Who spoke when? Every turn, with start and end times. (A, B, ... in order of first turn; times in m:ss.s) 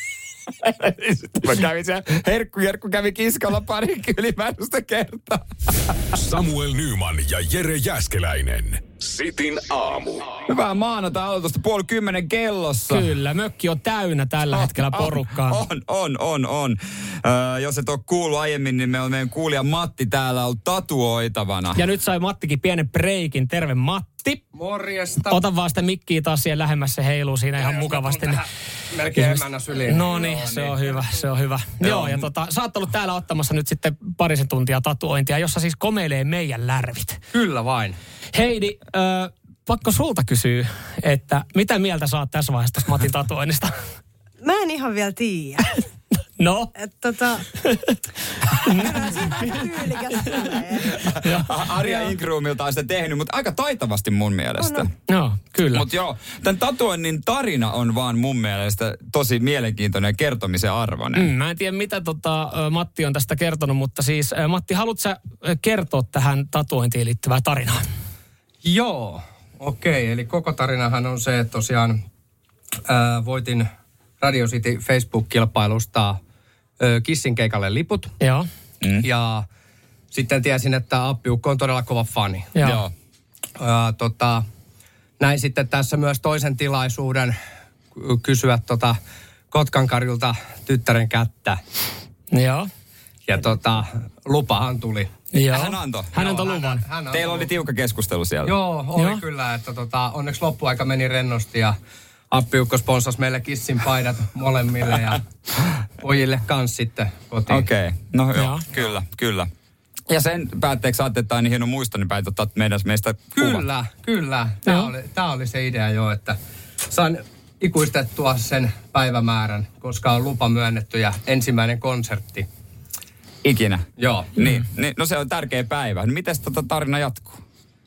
0:00.6-0:06.0 A
0:06.2-0:10.4 B
0:10.5-0:13.2 A
0:12.9-0:15.6 C
0:14.5-0:21.8 A
0:21.8-0:24.5 C
0:24.5-0:25.4 D
0:25.3-0:28.4 C
0:27.6-0:31.0 D
0:29.1-0:37.2 C
0:31.8-0:32.3 D
0:37.3-0:38.0 D
0:38.3-0:43.8 C
0:44.4-0:45.8 E
0:46.4-0:46.7 C
0:46.8-0:47.4 E
0:47.7-0:51.7 C
0:48.7-0:51.1 E
0:51.0-0:54.9 A
0:51.8-0:52.1 E
0:54.6-0:54.9 E
0:55.1-0:55.9 C
0:55.7-1:01.3 A
1:01.2-1:07.8 C
1:08.6-1:12.0 D
1:12.9-1:13.7 D
1:14.2-1:16.2 D
1:16.8-1:18.1 D
1:18.2-1:18.5 C
1:19.0-1:19.5 D
1:20.1-1:22.5 D
1:22.6-1:22.8 C
1:22.6-1:22.9 A
1:23.6-1:24.4 D
1:25.2-1:27.4 D
1:28.0-1:29.0 D
1:29.5-1:31.6 D
1:32.3-1:32.7 C
1:33.3-1:35.1 D
1:35.3-1:36.8 C
1:35.5-1:36.5 A
1:36.2-1:37.5 D
1:37.1-1:38.6 A
1:38.5-1:41.8 D
1:39.0-1:39.2 C
1:42.3-1:45.2 D
1:46.0-1:47.7 D
1:47.5-1:49.5 A
1:48.4-1:48.7 C
1:50.1-1:53.6 A
1:53.4-1:56.4 D
1:56.9-2:02.5 D
2:03.4-2:07.4 A
2:04.0-2:04.4 D